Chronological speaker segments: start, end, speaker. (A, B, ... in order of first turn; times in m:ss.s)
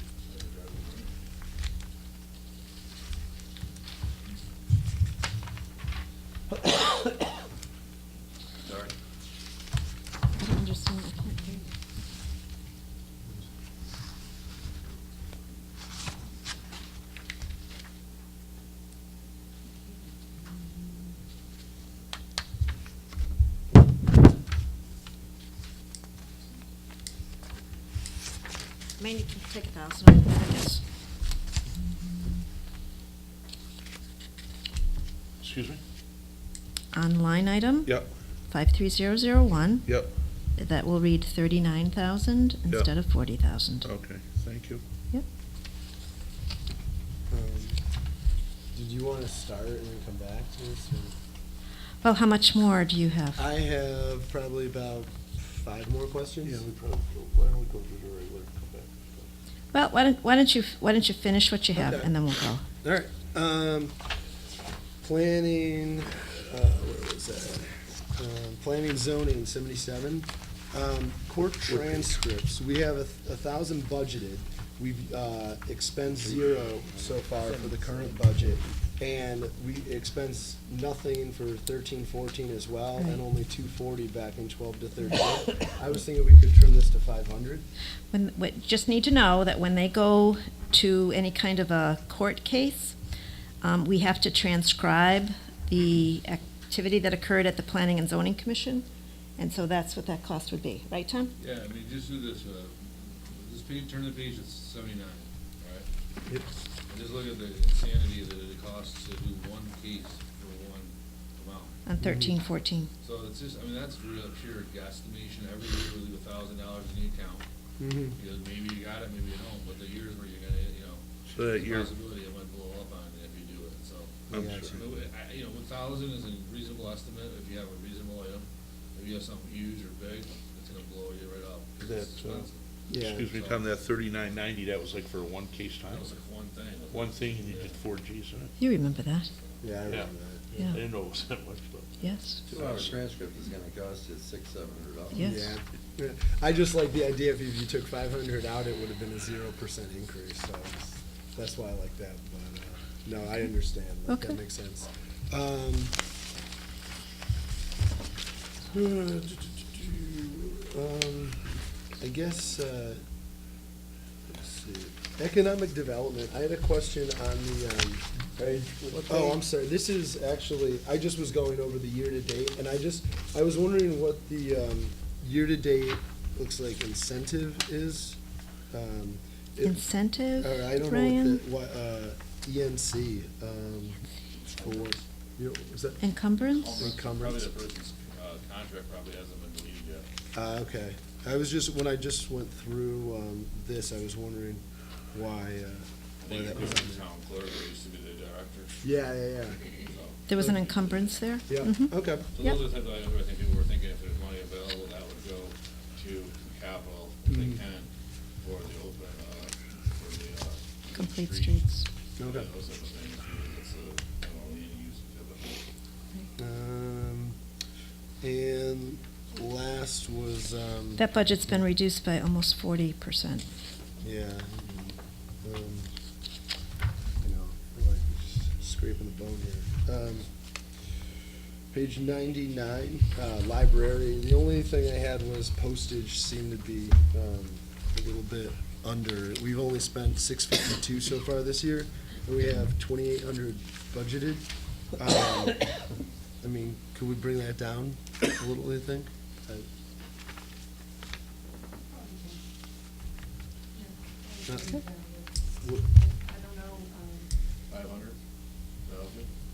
0:00.3-0:01.1 A
0:08.6-0:08.9 B
0:10.4-0:11.6 C
0:29.0-0:30.8 C
0:35.4-0:35.8 D
0:36.9-0:37.9 C
0:37.8-0:38.1 D
0:38.5-0:40.0 C
0:39.8-0:40.1 D
0:40.6-0:43.9 C
0:43.8-0:44.8 D
0:47.3-0:47.8 E
0:48.7-0:51.1 E
0:52.0-0:53.4 C
0:53.4-0:56.6 E
0:56.4-0:59.3 D
0:59.7-1:02.6 C
1:01.7-1:02.1 E
1:02.8-1:04.0 E
1:05.0-1:27.6 E
1:11.6-1:12.0 D
1:16.2-1:17.2 B
1:17.5-1:18.6 D
1:28.1-1:33.0 C
1:33.6-1:38.8 C
1:39.4-1:41.3 C
1:41.4-1:45.9 A
1:46.9-1:51.8 A
1:51.8-1:52.9 C
1:52.0-1:52.4 E
1:53.0-1:57.4 A
1:57.8-1:58.2 E
1:58.1-2:12.7 A
2:01.3-2:01.9 D
2:04.3-2:04.9 E
2:04.3-2:04.8 D
2:11.8-2:12.5 D
2:12.9-2:13.3 E
2:13.0-2:16.0 D
2:13.3-2:13.6 A
2:15.9-2:17.8 A
2:16.9-2:18.5 D
2:18.6-2:19.3 C
2:19.3-2:19.6 A
2:19.6-2:20.6 E
2:19.8-2:22.1 D
2:20.6-2:20.8 C
2:22.0-2:22.4 C
2:22.5-2:25.3 B
2:22.5-2:23.0 A
2:25.1-2:25.5 C
2:25.2-2:36.0 E
2:34.1-2:34.4 C
2:38.7-2:43.0 E
2:44.3-2:48.4 E
2:49.0-2:58.2 E
2:58.7-2:59.8 E
2:59.6-3:01.4 C
3:00.4-3:04.0 E
3:04.4-3:05.0 A
3:04.5-3:06.1 E
3:06.0-3:06.9 C
3:06.3-3:10.0 A
3:06.7-3:07.5 E
3:10.3-3:14.6 E
3:15.1-3:17.0 E
3:16.2-3:18.8 A
3:18.8-3:19.6 E
3:19.5-3:21.2 A
3:20.3-3:22.6 C
3:21.5-3:22.3 E
3:22.3-3:27.9 A
3:27.3-3:27.6 E
3:28.4-3:31.6 A
3:31.0-3:31.8 C
3:32.2-3:32.5 E
3:32.2-3:35.6 A
3:36.4-3:37.4 E
3:38.2-3:41.6 E
3:41.0-3:43.4 C
3:44.0-3:45.9 E
3:47.2-3:50.3 E
3:51.7-4:05.8 E
4:06.4-4:09.6 E
4:14.4-4:14.8 E
4:15.6-4:15.9 E
4:17.7-4:18.2 A
4:18.8-4:19.3 A